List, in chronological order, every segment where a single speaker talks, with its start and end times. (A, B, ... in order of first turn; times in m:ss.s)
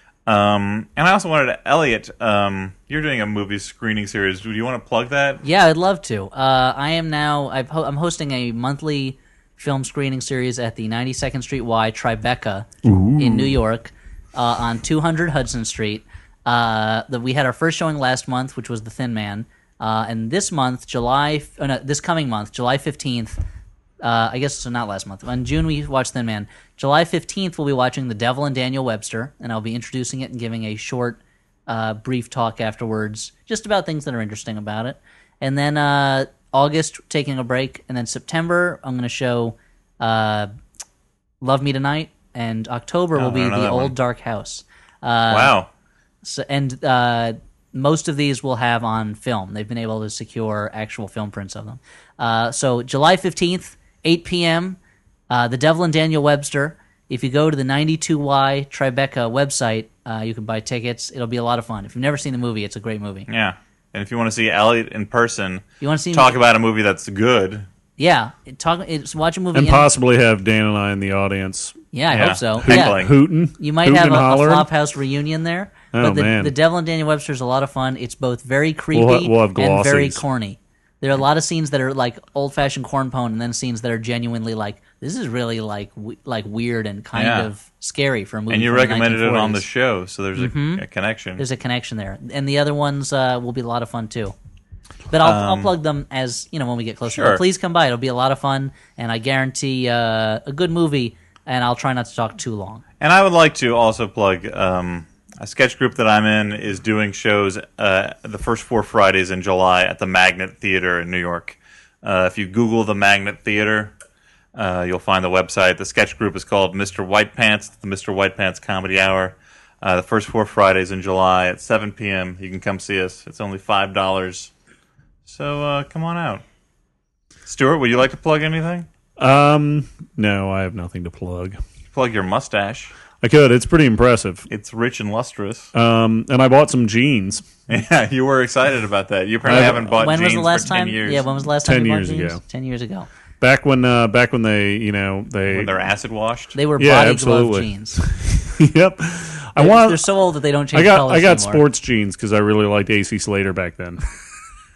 0:00.2-0:05.4 A
0:05.4-0:23.4 B
0:12.8-0:13.6 C
0:24.0-0:40.5 B
0:41.4-0:45.5 B
0:43.2-0:43.9 A
0:45.3-0:45.7 A
0:46.2-0:54.8 B
0:55.3-1:03.3 B
1:03.3-1:07.7 A
1:05.8-1:06.4 B
1:08.0-1:09.9 B
1:09.5-1:14.7 C
1:11.9-1:13.0 B
1:12.1-1:13.2 A
1:13.6-1:29.6 B
1:15.9-1:16.5 C
1:18.9-1:20.2 C
1:27.1-1:27.5 A
1:28.5-1:31.4 A
1:30.4-1:30.8 B
1:31.4-1:34.3 B
1:35.1-1:42.8 B
1:35.2-1:35.7 A
1:37.1-1:37.4 A
1:43.0-1:54.0 A
1:54.5-2:04.5 A
2:05.2-2:06.4 A
2:07.4-2:08.9 A
2:09.2-2:11.6 C
2:11.9-2:12.9 A
2:13.2-2:14.5 C
2:14.5-2:15.7 A
2:15.7-2:17.4 C
2:17.7-2:21.3 A
2:19.4-2:19.9 C
2:19.8-2:23.1 B
2:21.6-2:22.4 C
2:23.4-2:25.7 C
2:25.5-2:26.6 A
2:26.5-2:28.0 B
2:26.8-2:30.0 C
2:29.6-2:31.6 B
2:30.7-2:34.0 C